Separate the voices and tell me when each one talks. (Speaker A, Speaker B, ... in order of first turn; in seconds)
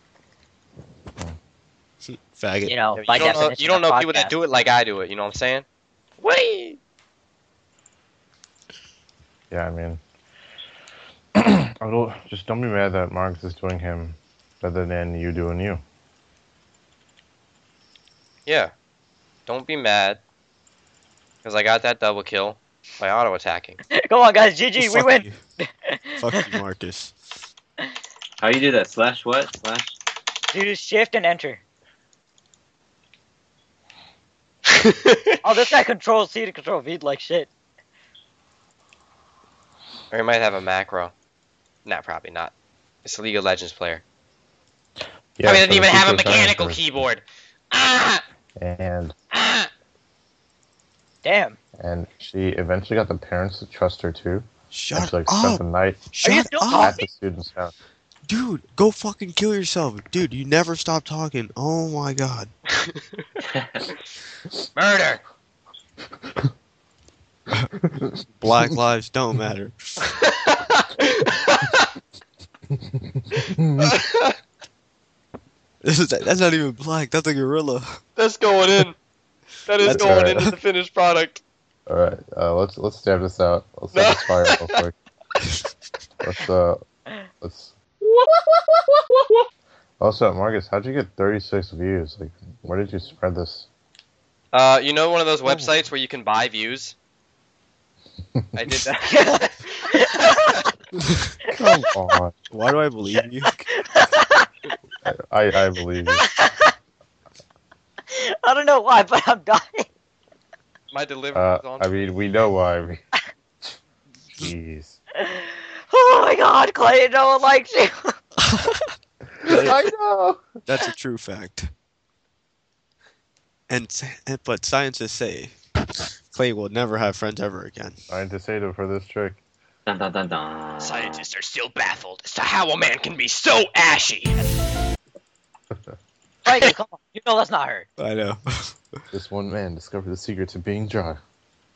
Speaker A: 2.0-2.8, 24.8-25.4, 26.2-27.1, 54.7-57.0, 58.3-62.5, 68.4-69.9, 75.8-78.0, 79.8-80.5, 95.5-95.7, 101.0-101.3, 102.5-103.6, 118.4-118.8, 120.7-121.7, 123.7-125.5, 126.3-128.0, 138.0-138.8
Speaker B: 2.6-4.3, 23.9-26.6, 30.5-31.6, 35.4-37.5, 51.2-51.6, 56.2-57.0, 99.0-100.6, 103.7-104.5, 106.2-106.7, 108.1-109.9, 115.2-118.1, 136.4-137.8
Speaker C: 3.0-5.6, 6.2-6.8, 18.5-18.7, 19.5-20.2, 21.4-23.8, 34.7-35.2, 40.1-41.1, 41.9-42.5, 43.0-44.0, 45.4-48.2, 49.3-49.7, 64.8-65.2, 70.2-71.9, 73.8-74.3, 78.2-79.0, 79.7-81.4, 83.9-84.8, 94.5-96.9, 98.5-100.4, 110.9-111.9, 130.8-134.4
Speaker D: 9.5-10.0, 11.3-15.8, 45.4-47.0, 48.6-49.1, 51.8-56.1, 56.7-57.7, 67.8-68.1, 72.7-73.9, 79.8-80.5, 81.9-84.9, 86.2-86.8, 87.4-87.7, 90.0-93.7, 101.5-102.3, 105.0-106.2, 111.3-113.0, 114.4-115.0, 119.4-120.4, 128.1-129.4, 139.1-141.2
Speaker E: 28.4-29.9, 63.4-63.9, 129.8-131.2